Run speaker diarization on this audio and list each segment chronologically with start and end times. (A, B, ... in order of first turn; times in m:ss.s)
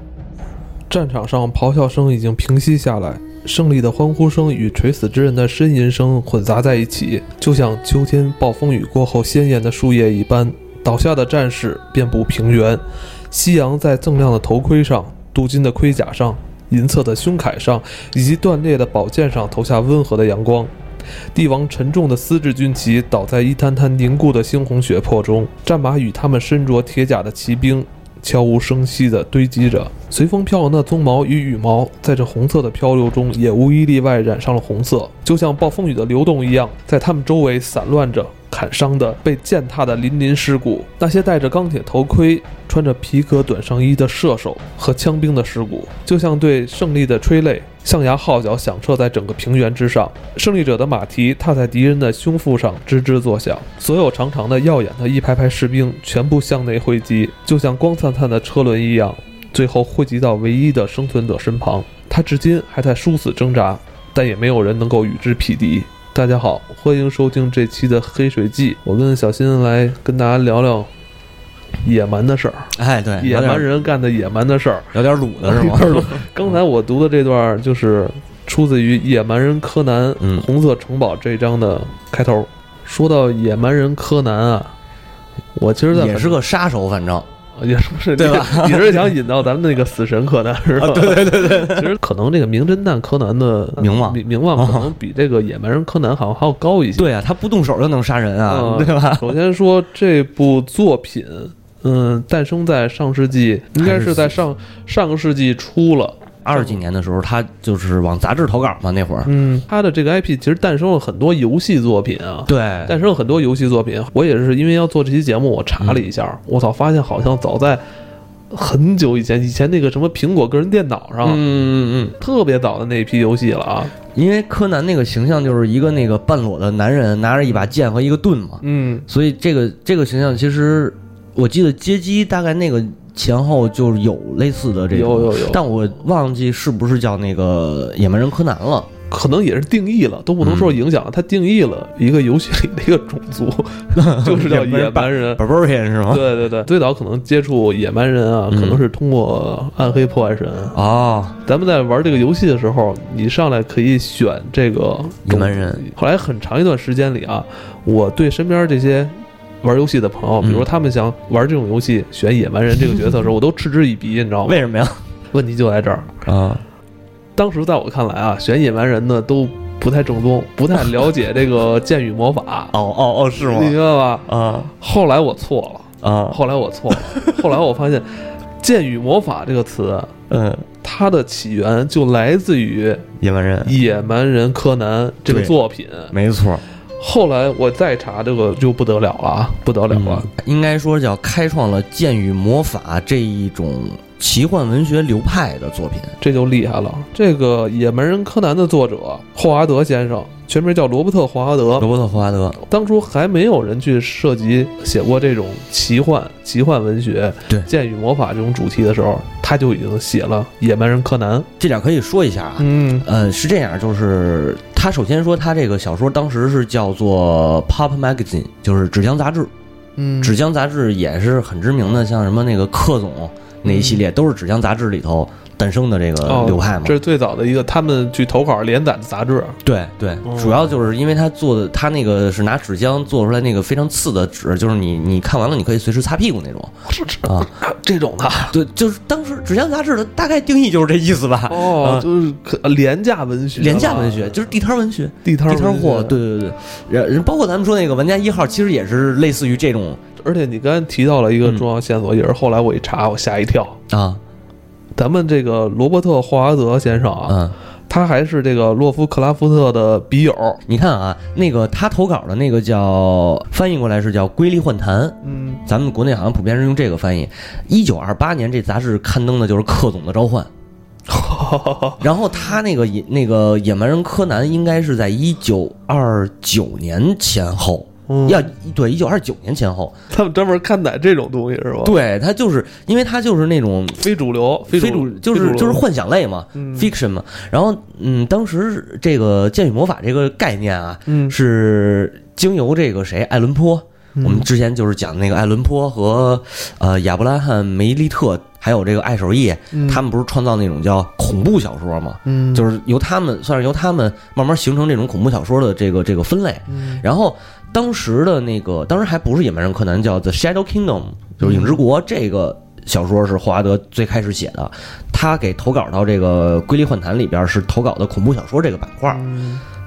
0:00.9-0:20.7 A
0:21.3-1:10.9 A
1:11.8-1:24.7 A
1:12.7-1:13.7 B
1:14.9-1:16.2 B
1:20.2-1:20.5 B
1:25.6-1:26.4 A
1:25.9-1:27.3 B
1:27.6-1:37.1 A
1:28.2-1:29.1 B
1:30.8-1:31.9 B
1:33.8-1:34.9 B
1:37.0-1:39.4 B
1:38.4-1:46.8 A
1:43.8-1:44.4 B
1:46.4-1:49.3 B
1:49.2-1:57.8 A
1:52.5-1:53.0 B
1:55.8-1:56.1 B
1:58.5-2:01.4 A
2:01.2-2:02.1 B
2:02.1-2:03.9 A
2:04.1-2:18.9 B
2:08.6-2:09.0 A
2:14.9-2:15.6 A
2:19.1-2:25.4 A
2:20.4-2:20.8 B
2:23.9-2:26.3 B
2:26.1-2:30.8 A
2:28.5-2:28.8 B
2:30.7-2:31.4 B
2:31.4-2:44.6 A
2:35.2-2:35.8 B
2:40.4-2:40.7 B
2:44.4-2:45.0 B
2:45.3-2:46.2 A
2:46.2-2:46.6 B
2:47.4-2:52.7 A
2:52.7-2:54.7 B
2:53.4-2:58.1 A
2:56.0-2:56.4 B
2:57.0-2:57.3 B
2:58.6-3:00.1 A
3:00.3-3:00.6 B
3:00.8-3:03.1 A
3:03.2-3:03.8 B
3:03.6-3:06.1 A
3:05.2-3:05.6 B
3:06.1-3:06.6 B
3:07.0-3:10.3 A
3:09.9-3:16.2 B
3:16.2-3:21.9 A
3:21.8-3:22.6 B
3:22.7-3:31.5 A
3:31.6-3:39.5 B
3:32.6-3:33.0 A
3:40.0-3:40.3 A
3:40.2-3:47.0 B
3:43.6-3:44.0 A
3:46.2-3:49.6 A
3:49.6-3:56.7 B
3:50.2-3:50.6 A
3:56.8-3:58.5 A
3:57.2-3:57.5 B
3:58.5-4:02.1 B
4:01.5-4:04.4 A
4:03.6-4:10.0 B
4:05.2-4:06.2 A
4:10.2-4:13.8 A
4:13.9-4:14.2 B
4:14.9-4:20.6 A
4:17.3-4:17.6 B
4:20.6-4:30.5 B
4:25.2-4:25.6 A
4:31.1-4:32.0 A
4:32.0-4:40.0 B
4:38.1-4:38.4 A
4:40.1-4:42.0 A
4:41.8-4:44.0 B
4:44.0-4:45.8 A
4:44.7-5:19.2 B
4:46.5-4:46.9 A
4:51.1-4:51.4 A
4:54.2-4:54.5 A
4:59.7-5:00.0 A
5:02.2-5:02.7 A
5:06.7-5:07.0 A
5:11.4-5:11.8 A
5:19.1-5:19.6 A